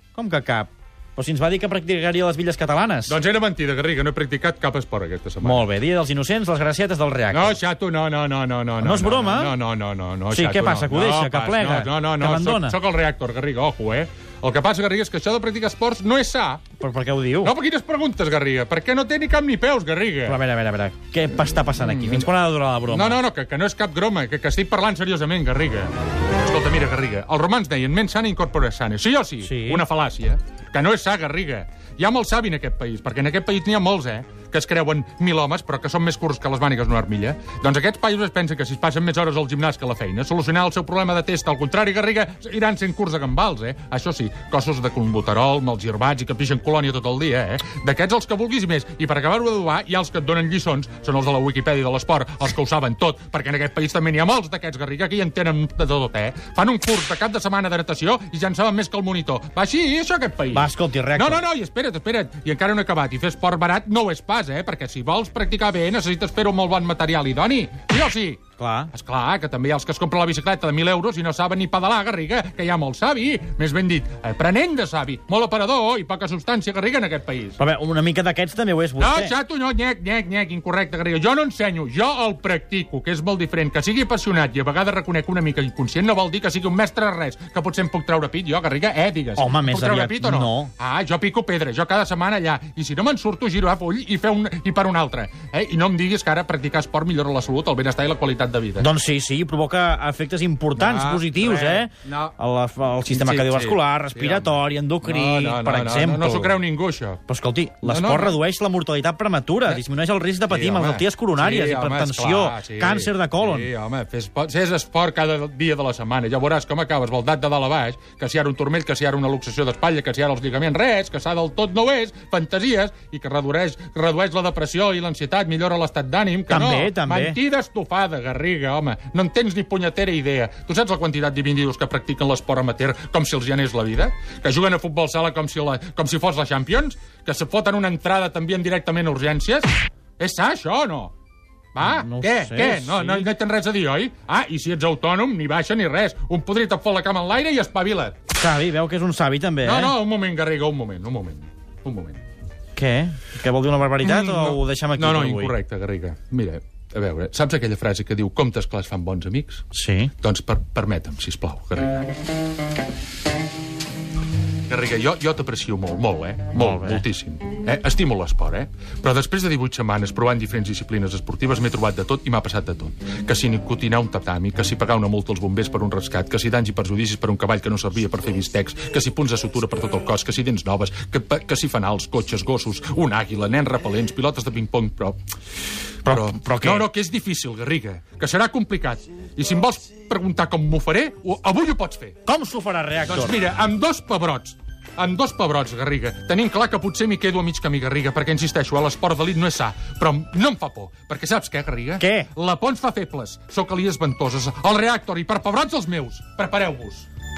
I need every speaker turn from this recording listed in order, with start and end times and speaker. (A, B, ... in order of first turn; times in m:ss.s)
0:00.1-0:03.2 A
0:03.1-0:05.7 B
0:05.4-0:07.6 A
0:07.3-0:16.6 B
0:08.8-0:09.6 A
0:10.3-0:12.8 A
0:16.8-0:17.5 A
0:17.4-0:20.4 B
0:20.2-0:23.2 A
0:21.7-0:22.3 B
0:22.9-1:08.4 B
0:29.4-0:29.8 A
1:00.5-1:01.4 A
1:08.6-1:08.9 A
1:08.9-1:17.6 B
1:17.6-1:19.4 A
1:19.0-1:38.9 B
1:29.4-1:30.7 A
1:38.8-1:46.6 A
1:40.8-1:42.4 B
1:43.0-1:47.2 B
1:47.3-1:53.7 A
1:47.8-1:48.4 B
1:50.5-2:21.1 B
2:06.5-2:07.4 A
2:21.8-2:28.2 B
2:21.8-2:23.3 A
2:28.4-2:30.0 A
2:29.6-2:32.2 B
2:32.8-2:35.5 A
2:34.0-2:39.6 B
2:39.7-2:40.1 A
2:40.2-2:42.1 B
2:44.7-3:05.2 B
2:46.6-2:47.0 A
3:06.0-3:06.9 A
3:06.1-3:12.2 B
3:12.2-3:13.4 A
3:13.1-3:27.1 B
3:22.0-3:22.3 A